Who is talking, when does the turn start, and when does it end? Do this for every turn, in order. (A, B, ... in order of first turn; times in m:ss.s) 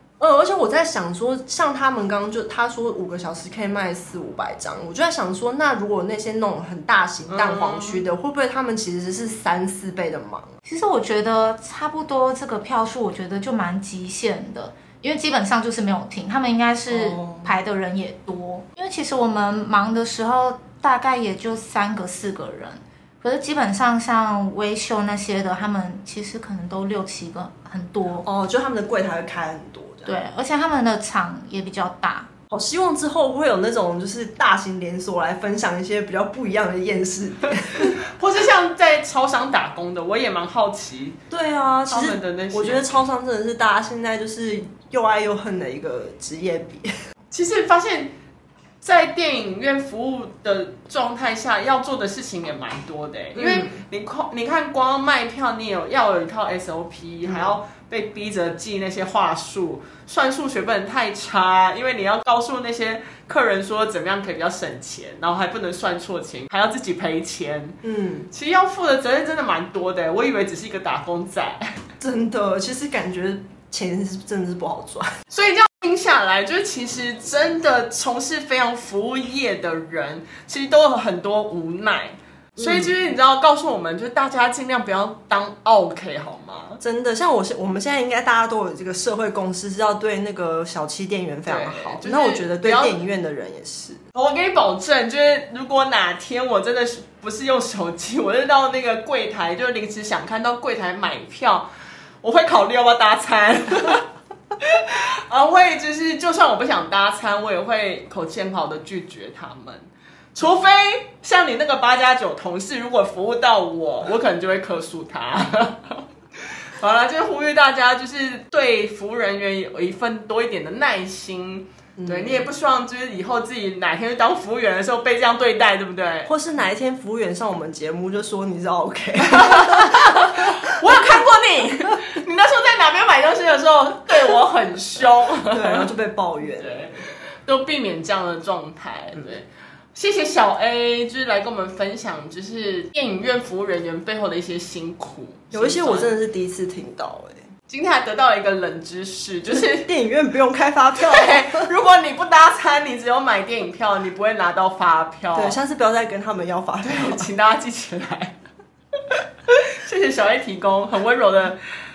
0:00.2-0:10.5 A
0:07.3-0:08.0 B
0:10.6-0:28.3 C
0:16.9-0:17.6 A
0:28.2-0:30.1 A
0:30.0-0:32.3 C
0:32.5-0:38.0 A
0:37.7-0:41.2 B
0:41.3-0:46.9 A
0:41.9-0:42.8 B
0:47.3-0:48.1 B
0:48.8-1:07.8 B
0:53.3-0:53.8 A
0:57.2-0:57.6 A
1:07.8-1:08.3 A
1:08.3-1:11.8 B
1:12.0-1:15.1 A
1:15.3-1:26.8 B
1:22.6-1:22.9 A
1:26.8-1:34.0 A
1:31.5-1:33.0 B
1:34.1-1:41.7 B
1:42.2-1:44.0 B
1:44.6-2:06.3 B
2:02.0-2:02.5 A
2:06.2-2:10.8 A
2:09.3-2:15.9 B
2:15.5-2:16.8 A
2:16.5-2:26.1 B
2:25.5-2:27.5 A
2:27.7-2:29.9 B
2:29.5-2:31.7 A
2:31.0-2:35.6 B
2:35.3-2:37.3 A
2:36.8-2:38.4 B
2:39.0-2:41.6 B